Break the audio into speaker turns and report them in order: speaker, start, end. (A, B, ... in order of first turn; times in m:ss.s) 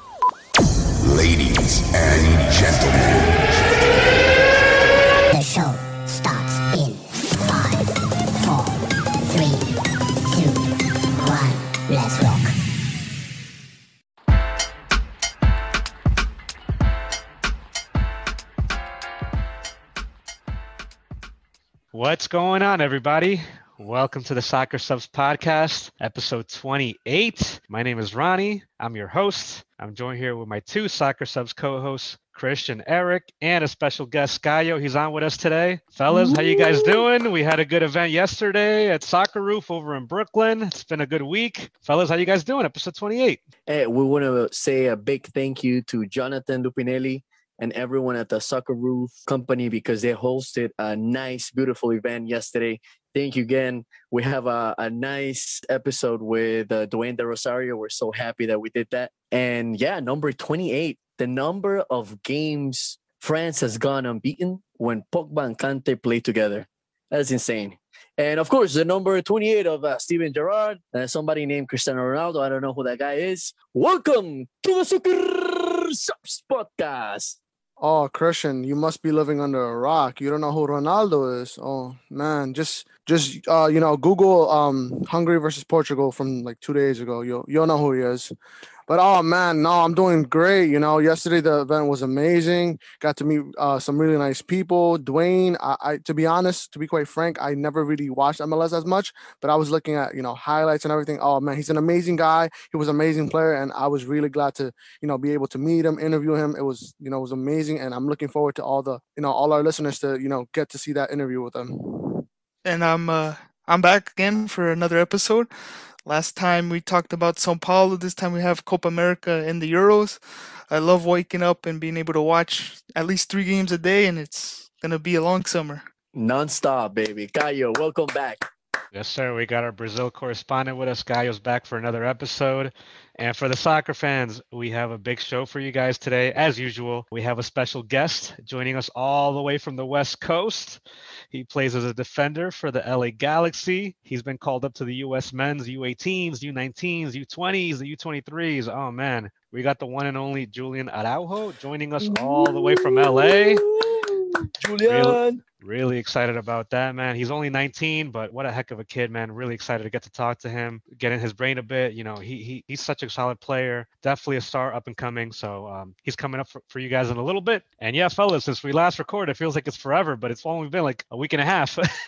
0:01.0-0:03.9 A
0:05.3-0:10.6 B
0:11.1-0:12.5 B
0:21.9-0:43.4 C
0:43.7-1:17.4 D
1:17.8-1:28.3 E
1:28.9-1:52.2 E
1:52.6-1:55.5 F
1:56.0-2:05.8 F
2:06.1-2:08.4 D
2:08.9-2:33.6 C
2:32.0-2:35.4 D
2:34.8-2:51.8 C